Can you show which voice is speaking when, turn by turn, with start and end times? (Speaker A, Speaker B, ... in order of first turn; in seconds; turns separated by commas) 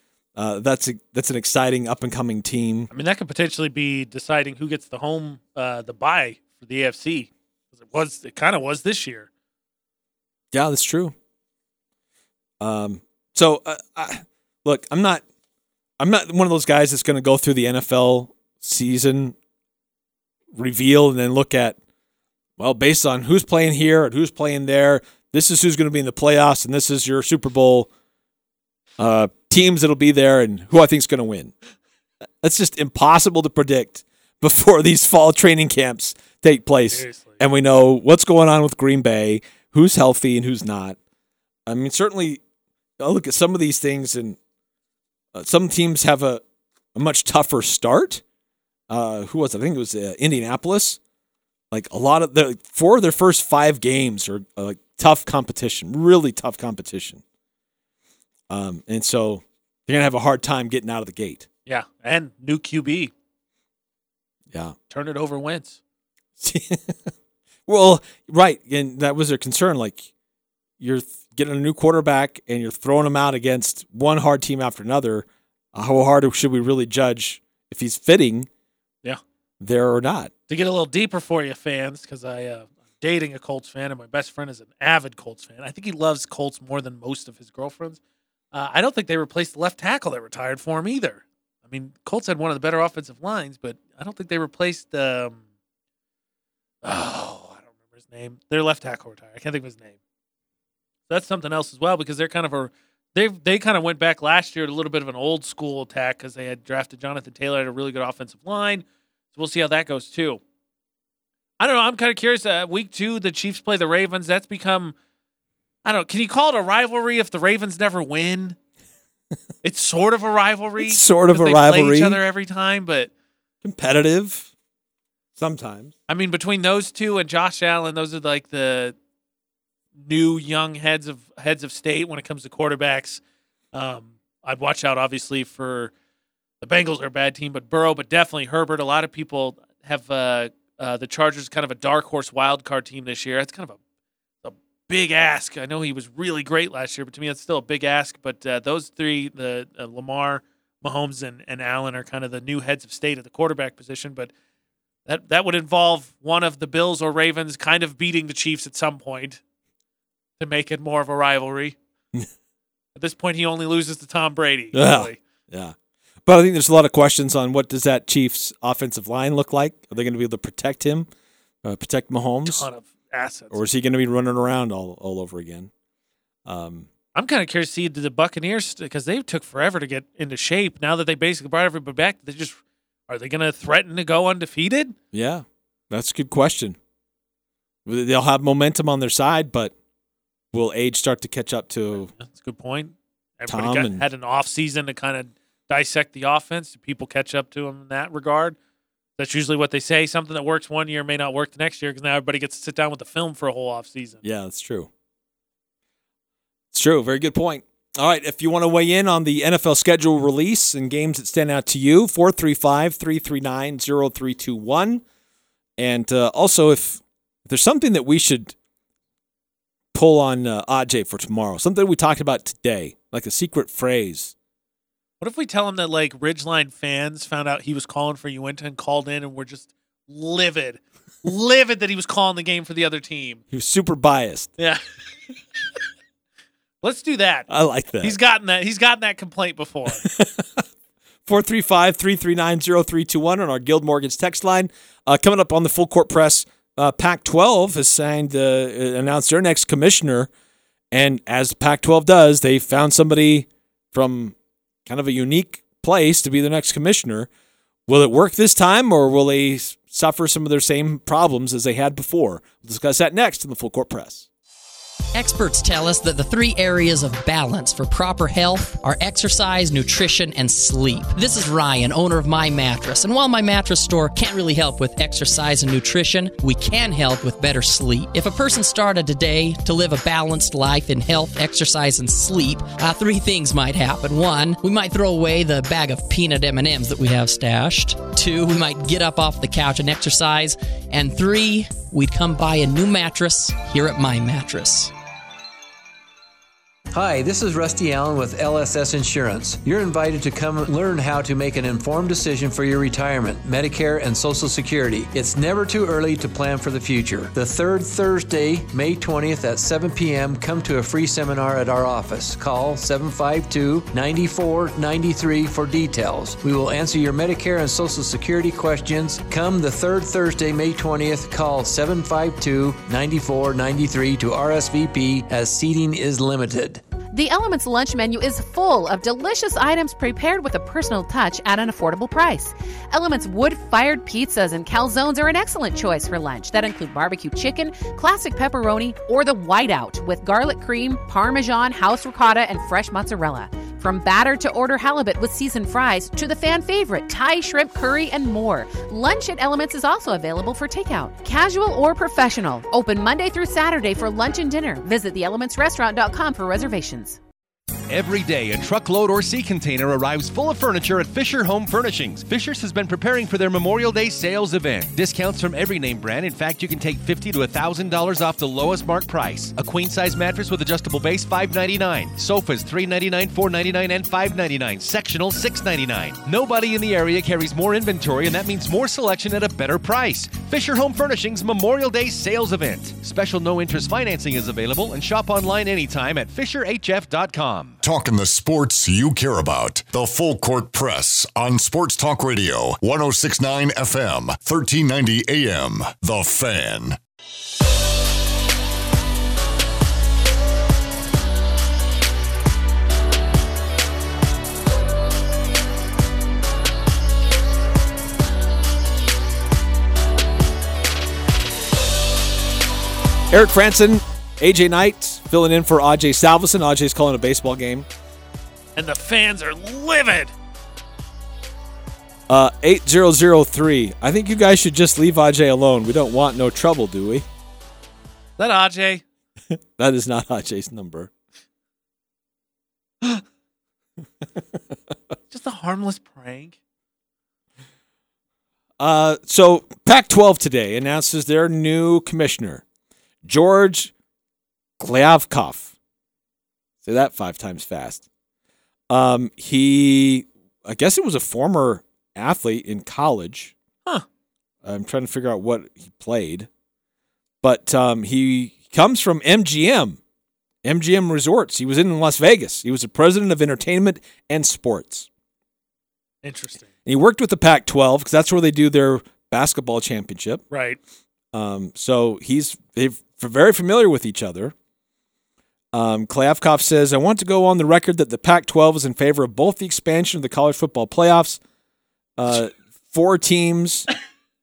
Speaker A: 0.4-2.9, Speaker B: 2.9-9.3, Speaker A: 10.5-11.2, Speaker A: 12.6-15.2, Speaker A: 16.0-19.4, Speaker A: 20.5-21.8, Speaker A: 22.6-27.9, Speaker A: 29.0-31.5, Speaker A: 32.4-41.0, Speaker B: 36.9-37.4, Speaker A: 41.7-42.4, Speaker A: 43.0-44.4, Speaker A: 45.3-46.4, Speaker A: 47.0-48.2, Speaker A: 48.9-51.0, Speaker A: 51.7-57.2, Speaker A: 58.5-61.5, Speaker B: 61.7-63.1, Speaker A: 64.5-64.8, Speaker B: 64.9-65.8, Speaker A: 66.4-67.1, Speaker A: 67.7-70.1, Speaker A: 70.8-78.5, Speaker A: 79.6-80.3, Speaker B: 80.5-88.0, Speaker B: 88.5-95.4, Speaker B: 96.8-100.0, Speaker B: 101.1-110.4, Speaker B: 111.6-115.0, Speaker B: 115.8-118.6, Speaker B: 119.6-123.1, Speaker A: 120.8-122.2, Speaker A: 123.6-124.5, Speaker A: 125.4-125.9, Speaker B: 126.1-129.0, Speaker B: 130.0-133.2, Speaker B: 133.7-135.9, Speaker B: 136.6-143.8, Speaker B: 144.4-154.3, Speaker B: 155.1-159.4, Speaker B: 160.4-161.8, Speaker B: 163.0-165.2, Speaker A: 164.7-165.8, Speaker A: 166.3-171.1, Speaker A: 171.6-172.7, Speaker B: 172.4-173.6, Speaker A: 173.5-175.7, Speaker A: 176.4-176.9, Speaker B: 177.2-182.6, Speaker B: 183.1-185.0, Speaker A: 185.1-186.8, Speaker A: 187.9-189.7, Speaker A: 190.5-192.1, Speaker B: 192.2-198.6, Speaker A: 193.5-194.1, Speaker B: 199.2-204.2, Speaker A: 204.2-204.9, Speaker A: 206.7-215.0, Speaker A: 215.8-218.6, Speaker A: 219.9-224.3, Speaker B: 225.2-233.4, Speaker A: 233.5-234.5, Speaker B: 236.8-237.5, Speaker A: 237.5-238.2, Speaker B: 238.0-240.0, Speaker A: 240.0-240.6, Speaker A: 241.3-250.3, Speaker A: 250.9-254.3, Speaker A: 254.9-257.3, Speaker A: 257.9-264.3, Speaker C: 265.1-294.9, Speaker D: 296.9-326.8, Speaker E: 327.1-357.2, Speaker F: 357.9-387.8, Speaker G: 387.8-397.0, Speaker A: 413.3-417.9, Speaker B: 418.8-420.3, Speaker A: 422.3-427.3, Speaker B: 428.4-429.0, Speaker A: 429.8-431.1, Speaker B: 435.3-436.6, Speaker A: 438.8-442.6, Speaker A: 443.2-443.9, Speaker A: 444.8-445.7, Speaker A: 446.8-448.1, Speaker A: 448.9-453.5, Speaker A: 454.6-456.5, Speaker A: 457.4-460.0, Speaker A: 460.6-465.1, Speaker B: 466.2-466.7, Speaker A: 466.8-470.4, Speaker B: 470.5-470.8, Speaker A: 471.3-474.5, Speaker A: 475.7-481.4, Speaker A: 482.2-483.9